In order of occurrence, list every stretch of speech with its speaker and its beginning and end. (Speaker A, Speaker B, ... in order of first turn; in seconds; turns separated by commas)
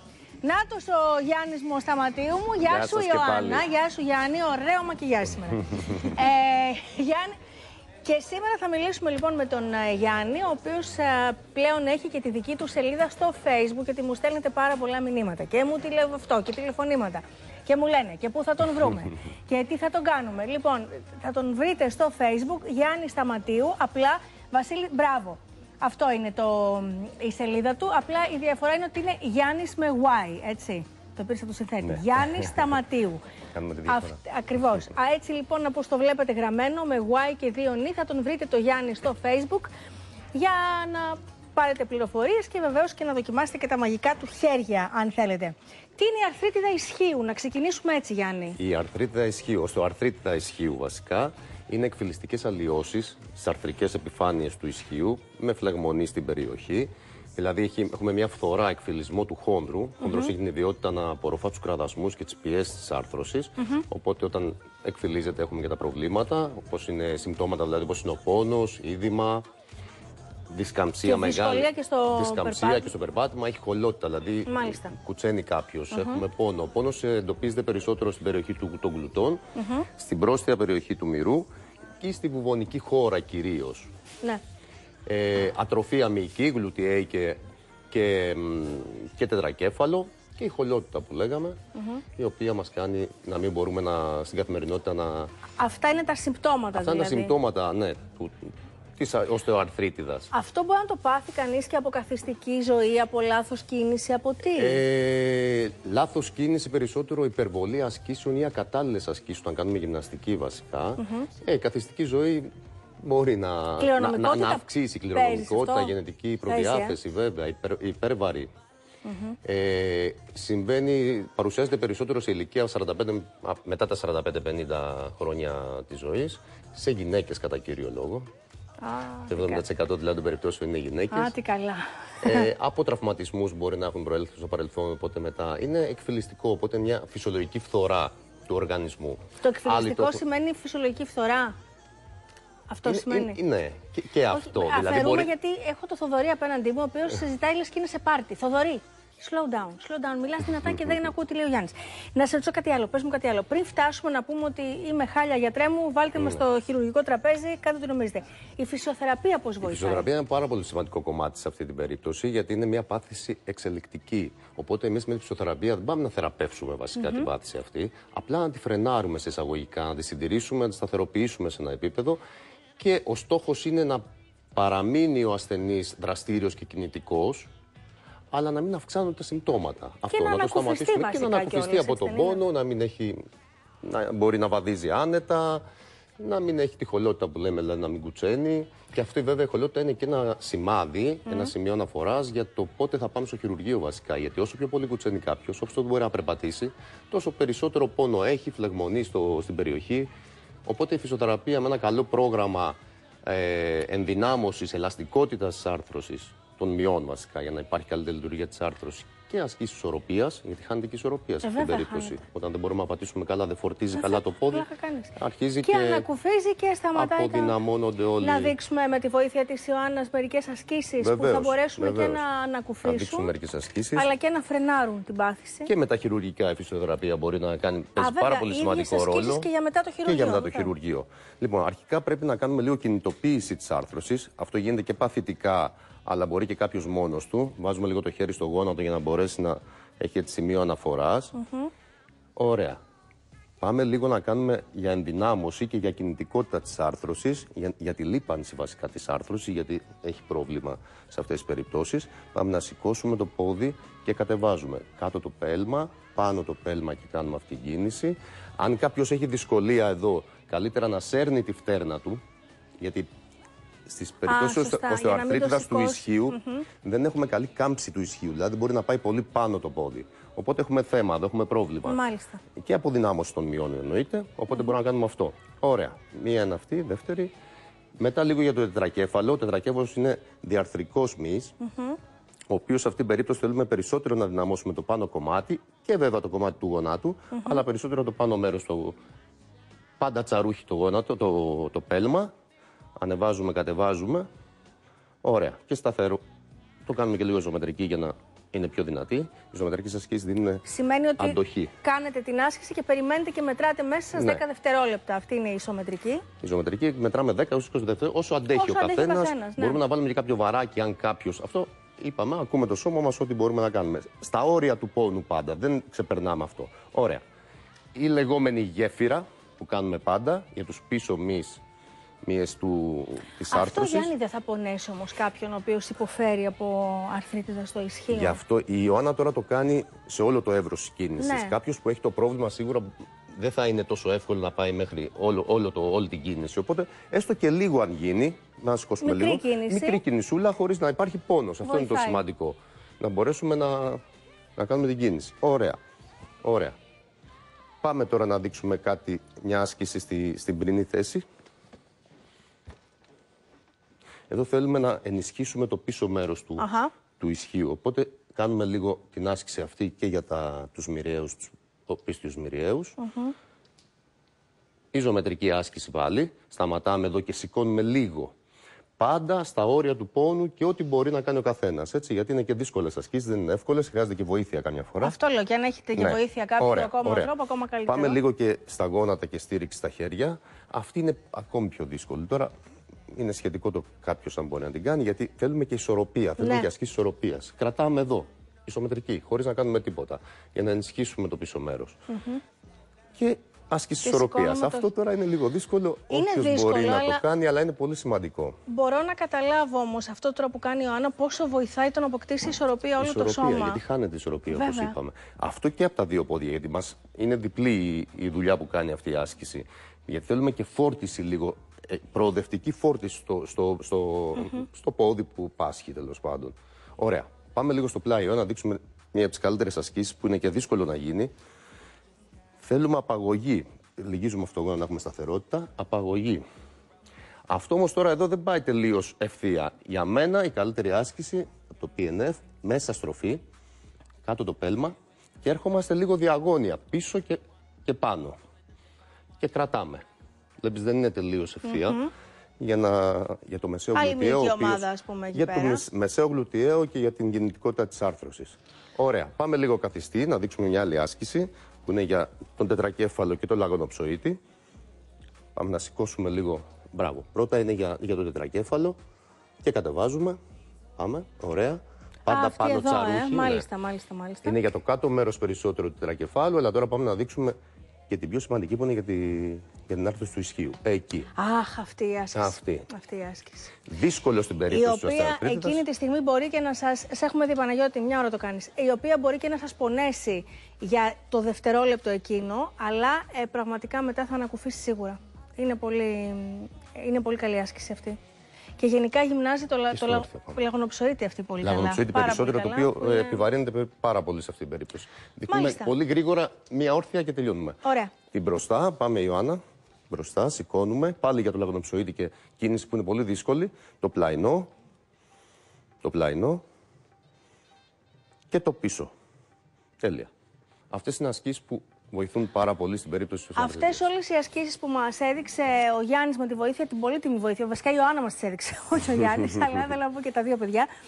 Speaker A: 0.4-7.3, Speaker B: 2.6-3.7, Speaker A: 8.1-33.2, Speaker B: 31.8-32.8, Speaker B: 33.5-34.2, Speaker A: 33.9-39.7, Speaker A: 40.3-48.6, Speaker B: 48.6-69.5, Speaker A: 60.0-60.3, Speaker A: 63.6-63.8, Speaker B: 70.5-81.5, Speaker A: 71.0-72.9, Speaker A: 74.5-75.0, Speaker A: 75.9-76.2, Speaker A: 79.6-79.9, Speaker B: 82.0-83.9, Speaker B: 85.1-87.4, Speaker B: 87.9-91.6, Speaker A: 91.8-92.0, Speaker B: 92.2-95.3, Speaker A: 95.6-97.3, Speaker B: 96.7-100.3, Speaker A: 100.3-104.8, Speaker B: 104.5-118.5, Speaker A: 111.0-111.3, Speaker A: 113.8-115.9, Speaker A: 116.5-117.0, Speaker A: 119.0-119.4, Speaker B: 119.4-128.3, Speaker A: 128.8-129.6, Speaker B: 129.3-131.3, Speaker A: 131.1-132.5, Speaker B: 132.2-140.2, Speaker A: 139.4-141.5, Speaker A: 142.7-143.4, Speaker B: 142.9-145.3, Speaker A: 144.3-160.1, Speaker B: 150.7-151.1, Speaker B: 156.2-156.4, Speaker B: 159.6-172.2, Speaker A: 167.0-167.3, Speaker B: 172.8-174.0, Speaker B: 174.5-177.5, Speaker B: 178.3-183.2, Speaker A: 180.1-182.4, Speaker B: 183.8-185.6, Speaker B: 186.2-200.1, Speaker A: 191.3-191.5, Speaker B: 200.7-216.1, Speaker A: 211.4-212.2, Speaker A: 214.0-217.5, Speaker B: 216.9-218.6, Speaker A: 218.2-223.3, Speaker B: 221.0-222.2, Speaker B: 222.8-224.1, Speaker A: 223.9-225.7, Speaker B: 225.7-229.5, Speaker A: 228.0-230.7, Speaker B: 230.1-241.3, Speaker A: 241.4-241.7, Speaker B: 242.4-242.8, Speaker B: 243.6-262.2, Speaker B: 262.8-263.1, Speaker B: 263.9-272.0, Speaker A: 264.3-266.6, Speaker A: 271.9-272.4, Speaker B: 272.6-277.3, Speaker B: 278.0-281.5, Speaker A: 281.6-282.0, Speaker B: 282.5-289.0, Speaker A: 287.3-287.6, Speaker B: 290.0-292.3, Speaker B: 293.0-294.3, Speaker B: 295.2-296.2, Speaker B: 296.9-300.6, Speaker A: 300.7-306.2, Speaker B: 301.2-301.7, Speaker B: 304.2-304.4, Speaker B: 306.4-317.2, Speaker A: 308.5-309.8, Speaker B: 317.9-321.6, Speaker B: 322.2-324.1, Speaker A: 323.5-328.4, Speaker B: 328.1-344.0, Speaker A: 331.2-331.6, Speaker A: 339.0-340.0, Speaker A: 341.6-342.2, Speaker B: 344.6-345.8, Speaker B: 346.4-346.8, Speaker B: 347.8-351.2, Speaker B: 354.3-356.7, Speaker A: 356.6-356.9, Speaker B: 357.2-363.0, Speaker A: 363.0-363.3, Speaker B: 364.9-368.3, Speaker B: 369.0-375.2, Speaker A: 375.0-378.2, Speaker B: 376.0-377.3, Speaker B: 377.9-382.5, Speaker B: 383.1-392.0, Speaker A: 386.4-386.7, Speaker A: 392.1-392.4, Speaker B: 393.2-398.6, Speaker A: 394.0-394.9, Speaker A: 396.1-397.2, Speaker A: 398.7-403.8, Speaker B: 403.0-421.3, Speaker A: 404.5-404.9, Speaker B: 422.6-426.4, Speaker B: 427.5-433.4, Speaker B: 434.2-438.4, Speaker B: 439.4-440.0, Speaker B: 440.6-442.0, Speaker A: 441.6-442.1, Speaker B: 442.6-454.4, Speaker A: 443.9-445.9, Speaker B: 455.6-459.0, Speaker B: 459.6-460.4, Speaker B: 461.0-463.7, Speaker A: 462.3-464.6, Speaker B: 464.4-467.6, Speaker B: 468.1-471.3, Speaker A: 471.4-473.7, Speaker B: 472.4-472.9, Speaker B: 473.9-475.8, Speaker A: 474.7-488.2, Speaker A: 488.8-493.4, Speaker B: 489.9-490.6, Speaker B: 491.6-497.8, Speaker A: 495.5-495.9, Speaker A: 497.8-498.1, Speaker B: 498.3-504.7, Speaker B: 506.0-506.6, Speaker B: 508.5-509.1, Speaker B: 510.0-510.3, Speaker B: 510.9-514.0, Speaker A: 513.6-520.9